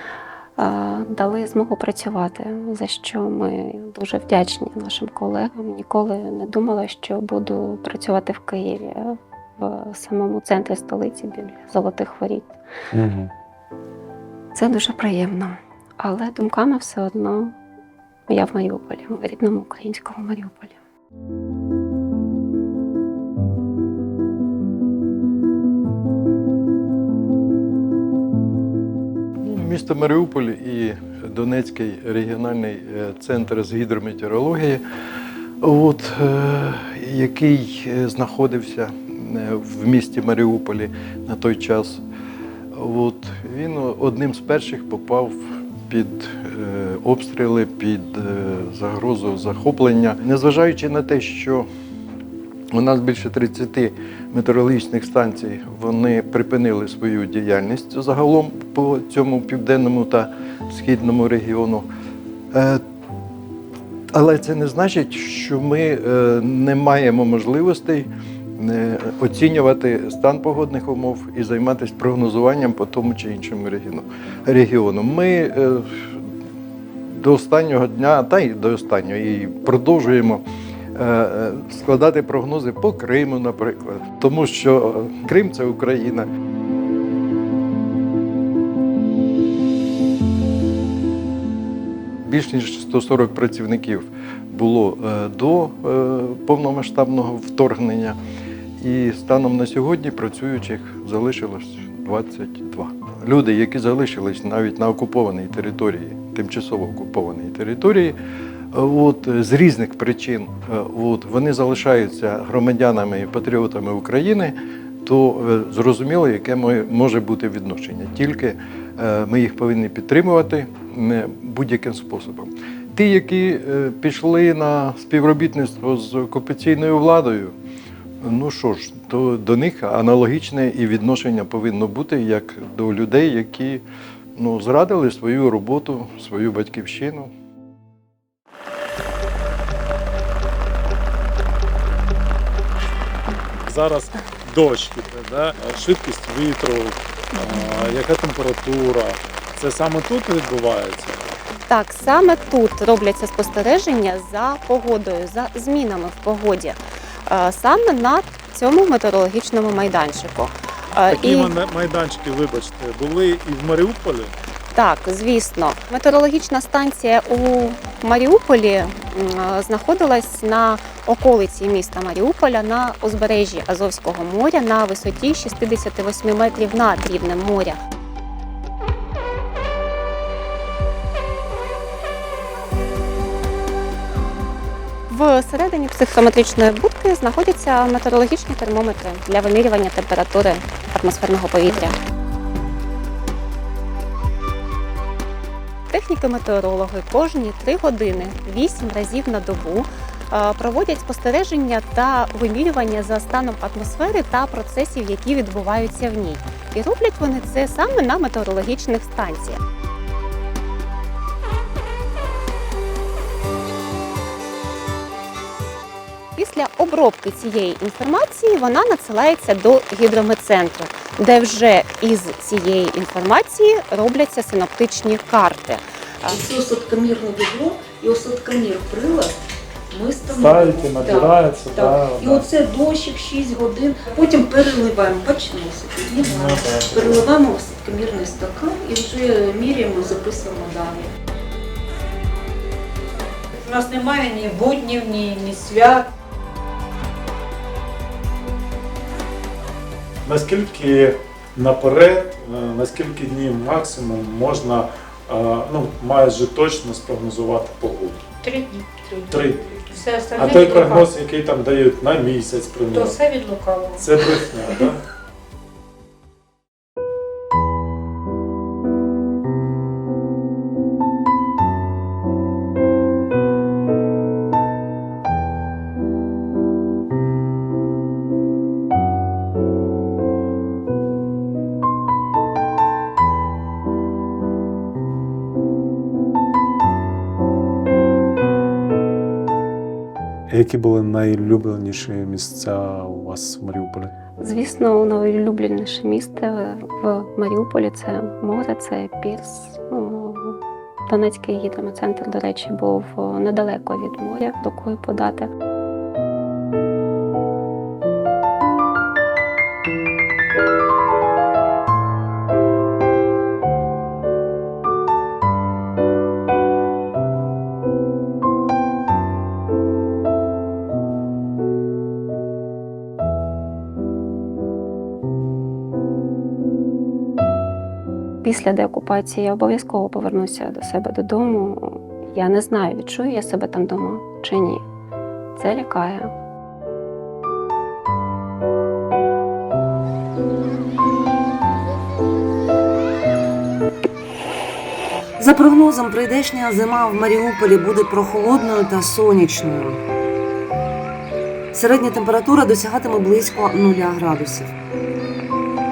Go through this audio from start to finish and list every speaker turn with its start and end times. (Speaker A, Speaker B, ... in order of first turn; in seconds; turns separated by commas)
Speaker A: 0.6-12.6, Speaker B: 12.9-13.3, Speaker A: 14.5-17.5, Speaker A: 18.3-20.8, Speaker C: 29.4-34.8, Speaker C: 35.6-42.0, Speaker C: 42.7-45.4, Speaker C: 45.9-51.7, Speaker C: 52.7-61.9, Speaker C: 62.5-62.8, Speaker C: 64.1-76.2, Speaker C: 77.1-80.4, Speaker C: 80.9-86.3, Speaker C: 92.2-98.2, Speaker C: 98.8-108.2, Speaker C: 108.7-127.5, Speaker C: 128.2-133.8, Speaker C: 134.4-137.3, Speaker B: 143.6-151.2, Speaker A: 151.7-161.5, Speaker B: 161.1-164.3, Speaker A: 164.7-177.8, Speaker A: 185.1-191.9, Speaker A: 195.9-209.6, Speaker A: 216.3-226.4, Speaker D: 226.3-229.3, Speaker D: 229.9-241.1, Speaker B: 230.3-232.5, Speaker B: 236.2-237.2, Speaker E: 243.6-246.1, Speaker B: 250.2-258.2, Speaker E: 258.4-261.1, Speaker B: 259.3-263.2, Speaker E: 262.9-264.1, Speaker B: 263.9-265.0, Speaker B: 290.5-294.1, Speaker A: 294.4-305.5, Speaker A: 328.4-334.8, Speaker A: 335.6-336.3, Speaker F: 345.4-350.0, Speaker F: 351.7-354.7